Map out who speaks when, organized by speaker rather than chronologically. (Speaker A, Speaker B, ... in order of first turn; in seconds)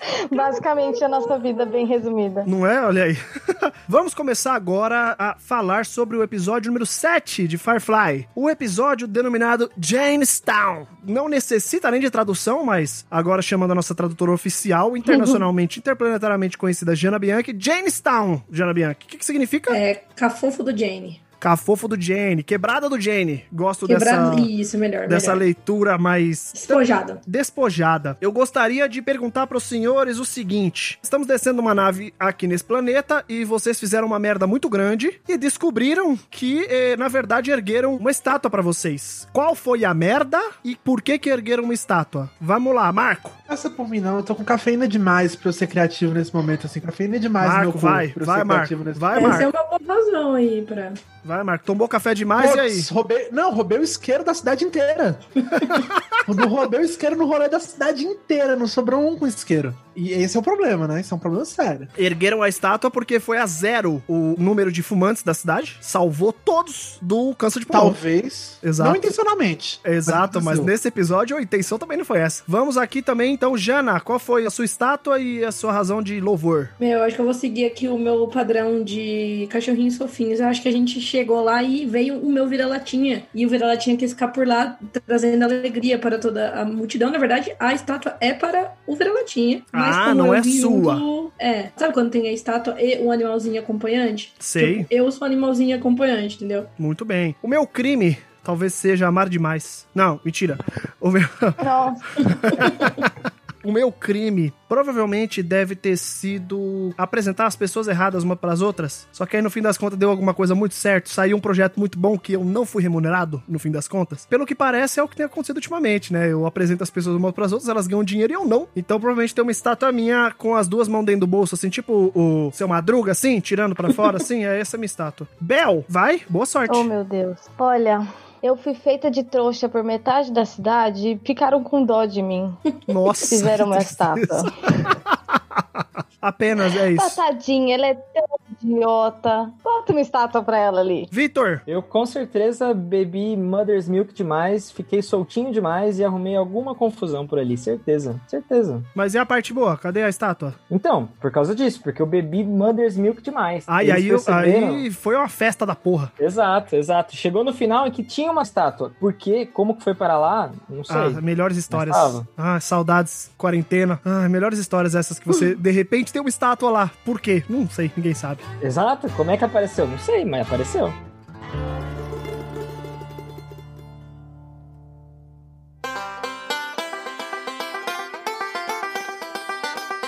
Speaker A: 0.2-2.5, 101.6-102.6, 126.7-132.7, 133.2-134.9, 136.9-141.1
Speaker B: 0.3-1.8, 19.7-21.2, 23.8-25.4, 26.5-27.2, 49.1-51.0, 76.8-96.7
Speaker C: 2.4-19.8, 21.4-24.5, 25.1-43.4, 47.4-49.5, 51.2-52.9, 55.5-56.2, 62.0-68.0, 68.6-69.0, 69.8-76.7, 89.7-91.0, 94.4-94.9, 96.8-126.9, 132.9-137.2, 141.1-141.6, 148.9-150.6, 153.7-156.1, 160.9-168.4
Speaker D: 43.5-49.2, 52.4-55.4, 56.2-61.9, 67.7-70.7
Speaker E: 141.7-148.9, 150.7-154.8, 156.2-162.3, 168.6-171.0